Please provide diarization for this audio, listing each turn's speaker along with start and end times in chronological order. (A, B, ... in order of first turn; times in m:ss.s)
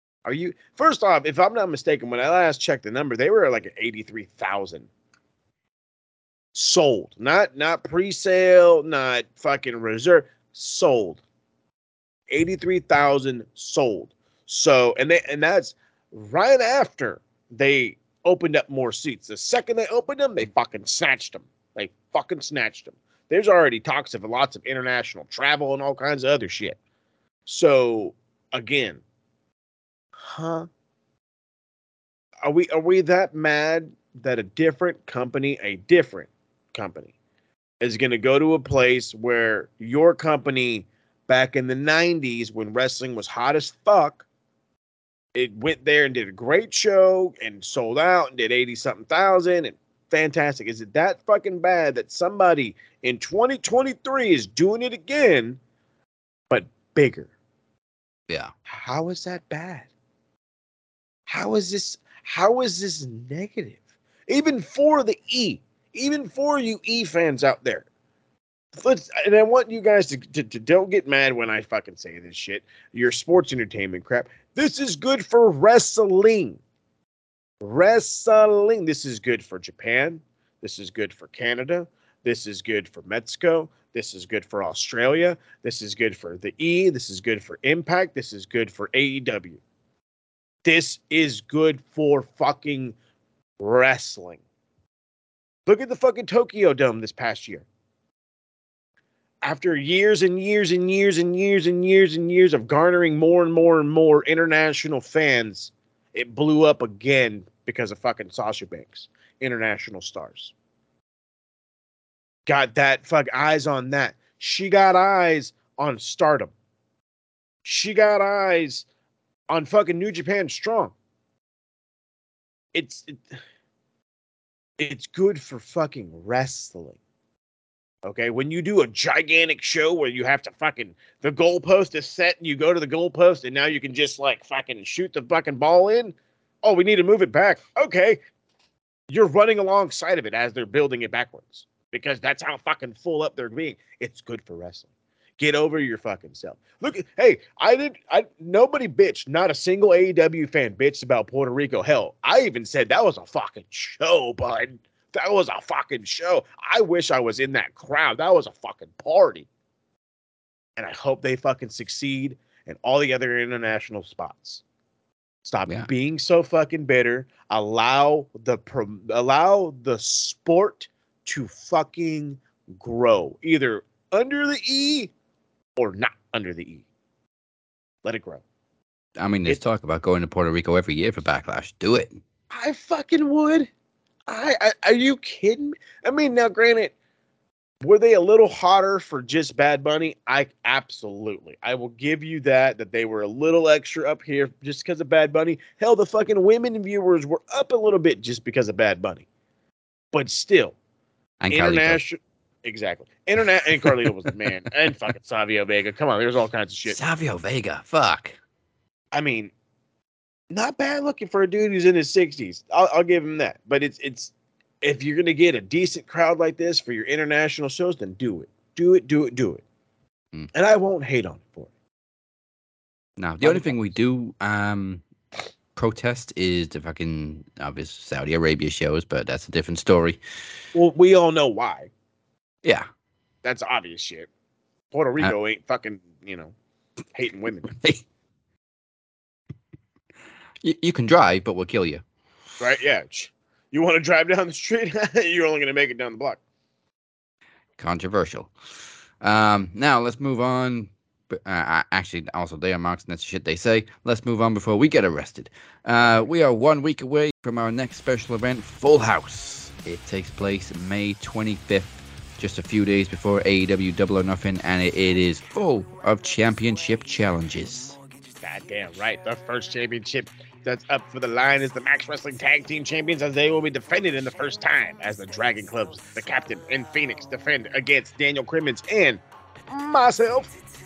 0:00.2-0:04.9 A
0:06.5-0:11.2 A
0:12.3-0:26.8 A
0:27.5-0:29.0 A
0:30.2-0:30.7 A
0:32.4-0:37.1 A
0:37.8-0:44.2 A
0:45.3-0:55.6 A
0:56.5-0:57.3 A
0:58.7-0:59.9 A
1:01.3-1:07.8 A
1:08.7-1:16.6 A
1:17.6-1:29.6 A
1:30.6-1:32.9 A
1:33.6-1:34.4 A
1:35.6-1:37.6 A
1:39.4-1:50.5 A
1:52.5-1:56.5 A
1:57.6-1:58.8 A
1:59.5-2:00.9 A
2:02.7-2:03.2 A
2:04.8-2:07.0 A
2:08.0-2:18.2 A
2:19.1-2:24.9 A
2:25.4-2:39.5 A
2:40.8-2:44.6 A
2:45.4-2:55.1 A
2:55.8-2:56.8 A
2:58.0-2:58.4 A
2:59.2-3:02.2 B
3:02.5-3:03.7 A
3:04.3-3:06.9 A
3:07.8-3:19.2 A
3:20.1-3:20.7 A
3:21.4-3:22.0 B
3:21.5-3:27.0 A
3:26.9-3:28.4 B
3:29.1-3:29.5 A
3:30.5-3:39.6 A
3:40.5-3:41.7 A
3:43.2-3:45.0 B
3:43.4-3:43.8 A
3:45.8-3:50.2 B
3:50.7-3:51.9 A
3:53.4-3:54.3 A
3:54.9-3:56.5 A
3:57.1-3:57.7 A
3:57.6-3:58.0 B
4:00.6-4:02.0 B
4:02.6-4:06.4 A
4:07.8-4:08.5 B
4:09.2-4:28.0 B
4:28.4-4:40.5 A